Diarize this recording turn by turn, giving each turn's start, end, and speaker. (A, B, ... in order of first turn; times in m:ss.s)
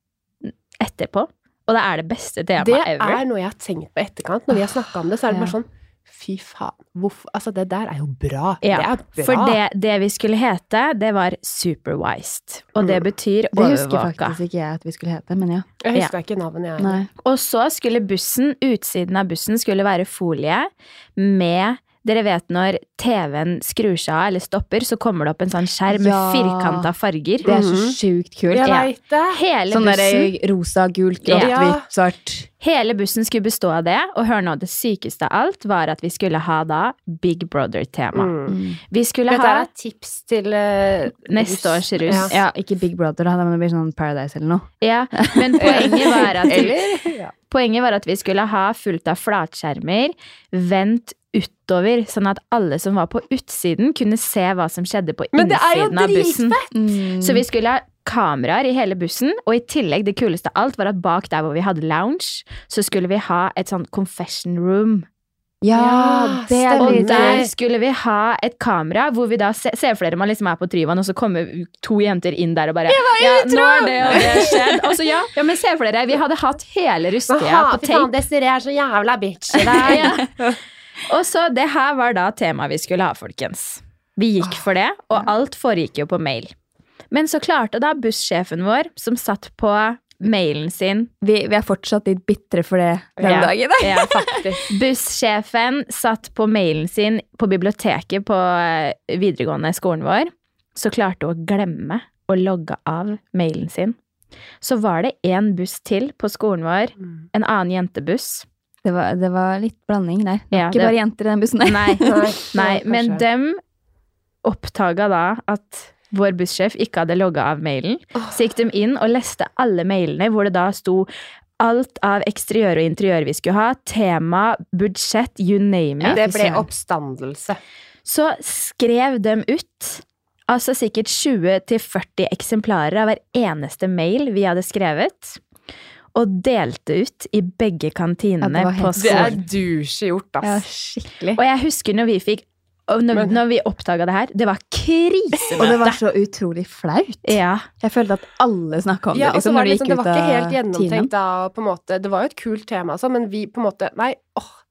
0:00.4-0:03.2 A
0:02.6-0:09.6 B
0:08.6-0:14.4 A
0:12.8-0:13.1 B
0:13.5-0:15.7 C
0:15.8-0:17.0 B
0:16.8-0:17.1 C
0:17.2-0:27.5 A
0:25.9-0:26.9 C
0:27.4-0:28.7 C
0:27.4-0:28.0 B
0:28.5-0:29.4 B
0:28.6-0:30.3 A
0:29.7-0:32.5 C
0:31.2-0:31.5 A
0:31.3-0:31.9 B
0:32.6-0:38.3 A
0:38.1-0:38.6 B
0:38.5-0:38.8 C
0:38.9-0:39.7 A
0:39.3-0:42.3 B
0:41.3-0:42.3 A
0:42.3-0:46.8 C
0:44.8-0:46.8 A
0:45.6-0:47.3 B
0:47.5-0:56.6 A
0:55.3-0:56.7 B
0:56.7-0:57.4 C
0:57.2-1:05.1 A
1:05.6-1:07.5 C
1:05.7-1:07.5 B
1:06.8-1:18.1 A
1:12.9-1:14.8 C
1:17.3-1:20.6 B
1:19.6-1:20.3 A
1:19.7-1:20.1 C
1:21.1-1:26.5 A
1:27.1-1:31.1 A
1:31.2-1:34.5 C
1:33.2-1:34.6 B
1:33.2-1:44.0 A
1:44.6-1:48.5 A
1:48.8-1:52.3 C
1:50.5-1:51.0 A
1:51.6-1:53.6 A
1:52.0-1:53.2 B
1:54.4-2:06.2 A
2:06.0-2:06.7 C
2:06.1-2:07.6 B
2:08.0-2:15.4 A
2:16.1-2:19.4 A
2:18.4-2:19.4 C
2:19.0-2:20.6 B
2:20.4-2:21.4 C
2:21.4-2:26.0 A
2:25.6-2:31.1 C
2:27.2-2:27.7 A
2:29.1-2:34.6 B